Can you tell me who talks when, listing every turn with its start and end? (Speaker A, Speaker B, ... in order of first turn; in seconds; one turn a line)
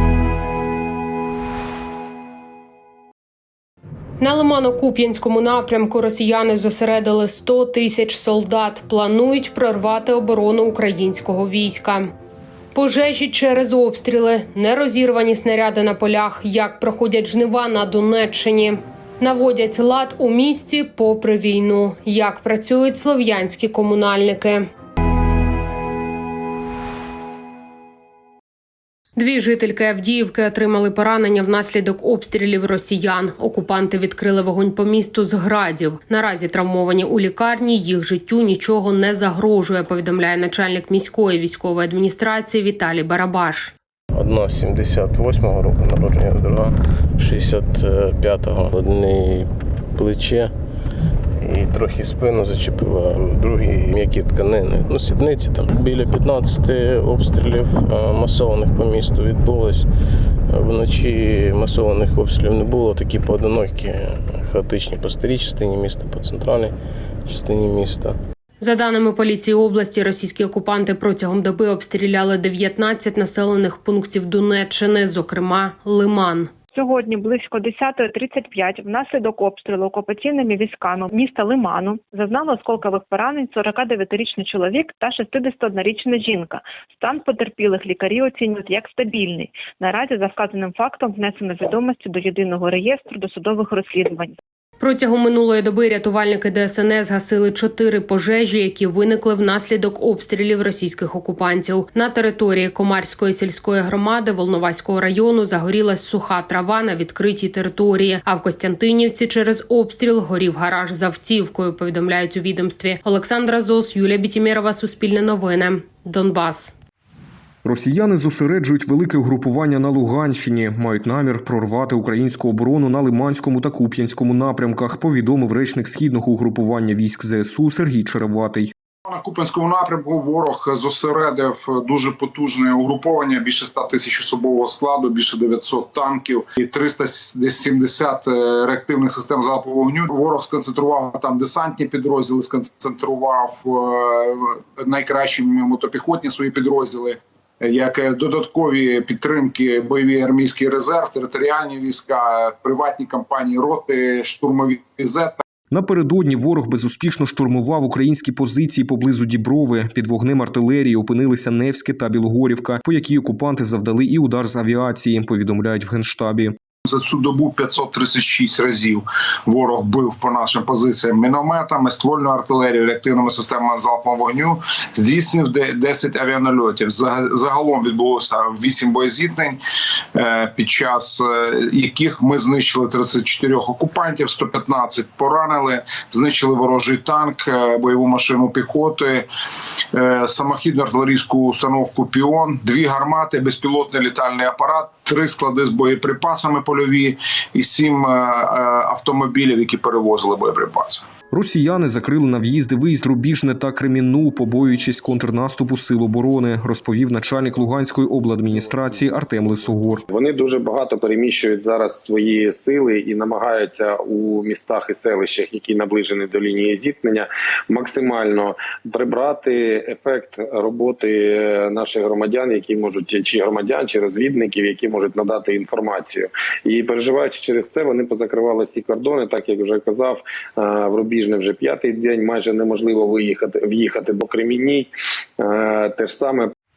Speaker A: 4.2-12.1
Speaker A: 12.7-24.6
Speaker A: 29.1-43.7
Speaker B: 44.1-50.5
Speaker B: 51.4-59.9
Speaker B: 60.5-66.7
Speaker B: 67.3-68.1
Speaker A: 68.6-76.5
Speaker C: 76.7-94.3
Speaker A: 94.8-116.7
Speaker D: 117.6-128.7
Speaker E: 129.1-155.4
Speaker D: 155.7-166.6
Speaker E: 166.8-179.6
Speaker E: 180.1-189.3
Speaker E: 189.9-201.0
Speaker D: 201.3-210.0
Speaker F: 210.1-236.5